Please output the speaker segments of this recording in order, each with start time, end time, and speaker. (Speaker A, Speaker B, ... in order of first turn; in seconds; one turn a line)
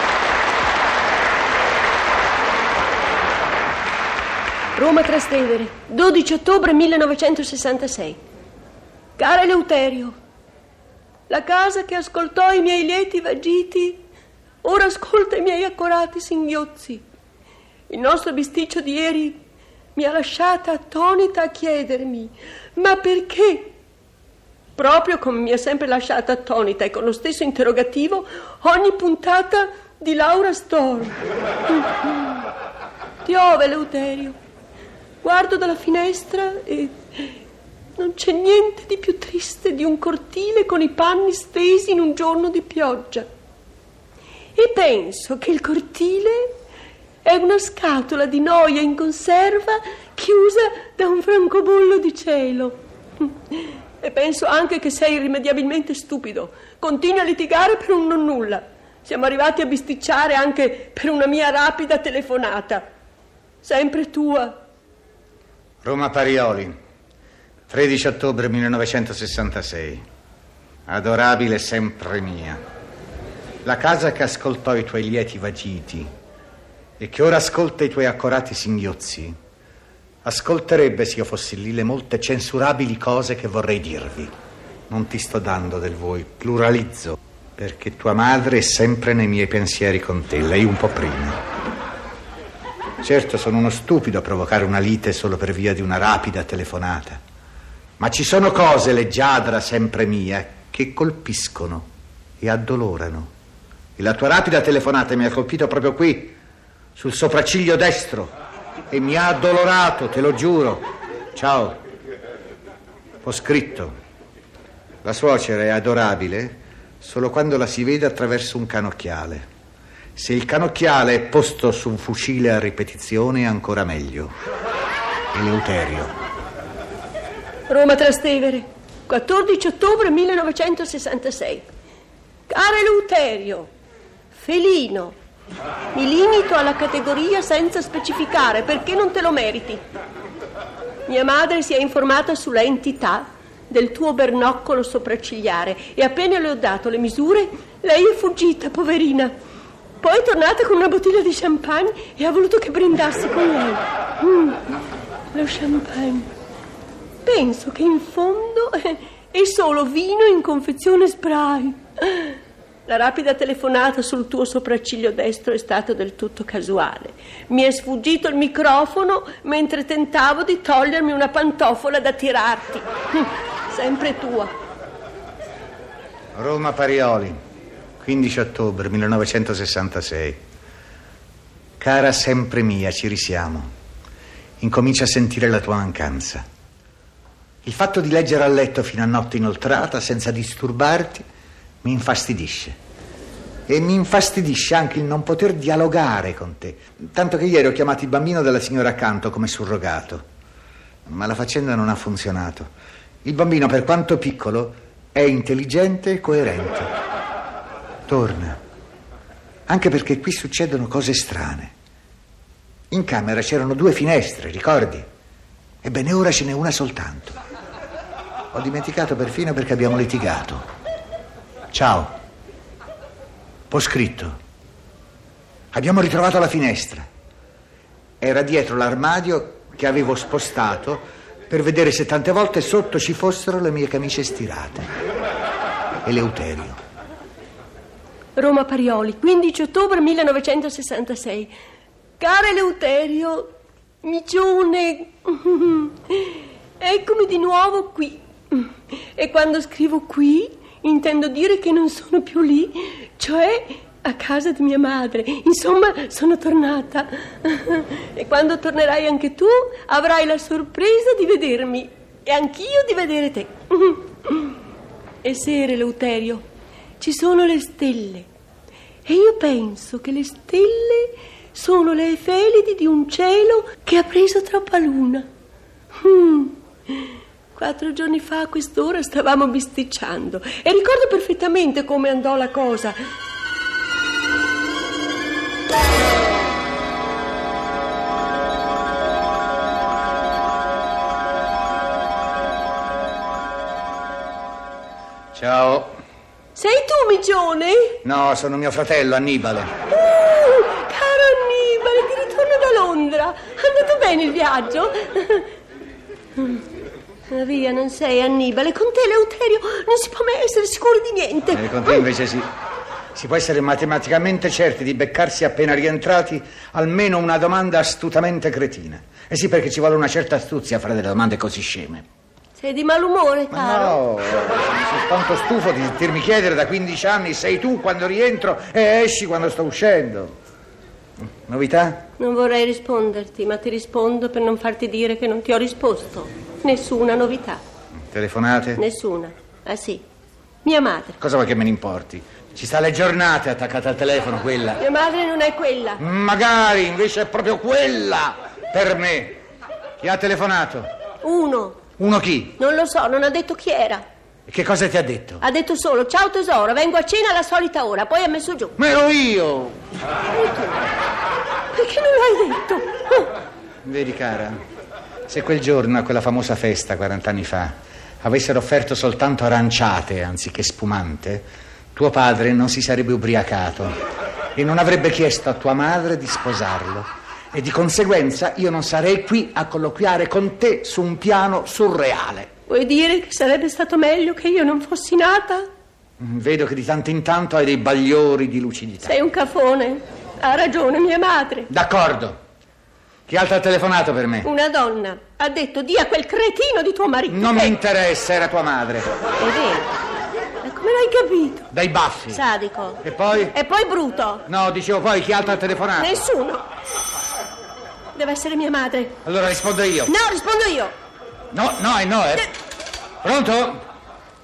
Speaker A: 4.8-8.2
Speaker A: 9.2-10.1
Speaker A: 11.3-14.0
Speaker A: 14.6-17.0
Speaker A: 17.9-19.4
Speaker A: 19.9-23.7
Speaker A: 24.8-32.4
Speaker A: 33.2-34.4
Speaker A: 35.2-37.4
Speaker A: 38.0-43.3
Speaker A: 44.5-46.5
Speaker A: 47.2-62.8
Speaker A: 63.6-64.5
Speaker B: 65.8-66.7
Speaker B: 67.7-70.0
Speaker B: 70.8-72.6
Speaker B: 73.6-76.1
Speaker B: 77.0-79.4
Speaker B: 80.2-84.3
Speaker B: 84.9-91.4
Speaker B: 93.0-97.2
Speaker B: 98.0-101.9
Speaker B: 102.4-103.3
Speaker B: 104.0-106.3
Speaker B: 107.0-108.3
Speaker B: 108.9-110.8
Speaker B: 111.3-111.8
Speaker B: 113.2-113.9
Speaker B: 115.0-119.5
Speaker B: 120.2-124.3
Speaker B: 125.3-126.1
Speaker A: 127.7-131.7
Speaker A: 132.5-133.7
Speaker A: 134.3-135.2
Speaker A: 135.9-139.8
Speaker A: 141.1-149.3
Speaker A: 150.0-154.6
Speaker A: 155.3-156.3
Speaker A: 157.2-174.5
Speaker B: 176.3-177.4
Speaker B: 178.0-180.4
Speaker B: 181.8-183.7
Speaker B: 184.6-186.4
Speaker B: 187.6-191.2
Speaker B: 191.8-192.8
Speaker B: 193.7-200.2
Speaker B: 201.1-202.7
Speaker B: 203.2-206.9
Speaker B: 208.1-208.6
Speaker B: 209.7-211.7
Speaker B: 212.9-215.1
Speaker B: 215.8-217.3
Speaker B: 218.5-220.6
Speaker B: 221.7-222.1
Speaker B: 223.7-224.3
Speaker B: 225.7-227.1
Speaker B: 228.2-234.9
Speaker B: 236.0-236.8
Speaker A: 238.3-241.5
Speaker A: 242.2-264.6
Speaker A: 265.2-266.4
Speaker A: 267.0-268.3
Speaker A: 269.1-275.3
Speaker A: 275.9-283.0
Speaker B: 295.3-296.0
Speaker A: 296.6-298.0
Speaker B: 298.0-299.7
Speaker A: 299.9-305.5
Speaker A: 307.3-312.1
Speaker B: 311.5-312.5
Speaker B: 313.1-322.1
Speaker A: 322.6-324.0
Speaker B: 323.5-330.4
Speaker B: 331.5-332.1
Speaker A: 332.2-337.6
Speaker B: 338.1-338.8
Speaker A: 338.8-340.0
Speaker A: 340.6-341.2
Speaker B: 341.2-344.8
Speaker A: 344.8-346.0
Speaker B: 346.0-349.4
Speaker B: 350.0-350.9
Speaker A: 351.2-351.8
Speaker B: 352.0-352.6
Speaker A: 352.6-354.0
Speaker B: 354.5-355.4
Speaker A: 355.4-358.7
Speaker B: 358.8-359.8
Speaker A: 360.3-360.8
Speaker A: 361.7-363.3
Speaker B: 363.9-364.6
Speaker B: 365.3-373.9
Speaker B: 374.6-382.5
Speaker A: 382.7-385.7
Speaker B: 386.2-389.1
Speaker A: 389.0-391.7
Speaker B: 391.7-392.4
Speaker B: 393.3-394.5
Speaker A: 394.4-397.8
Speaker B: 397.3-399.1
Speaker A: 399.4-399.9
Speaker A: 400.6-401.7
Speaker B: 401.7-402.4
Speaker A: 402.3-404.4
Speaker B: 403.0-403.6
Speaker B: 404.5-406.2
Speaker A: 406.0-406.6
Speaker A: 408.1-409.2
Speaker B: 409.2-410.1
Speaker A: 410.1-410.9
Speaker B: 411.5-412.5
Speaker B: 413.2-413.8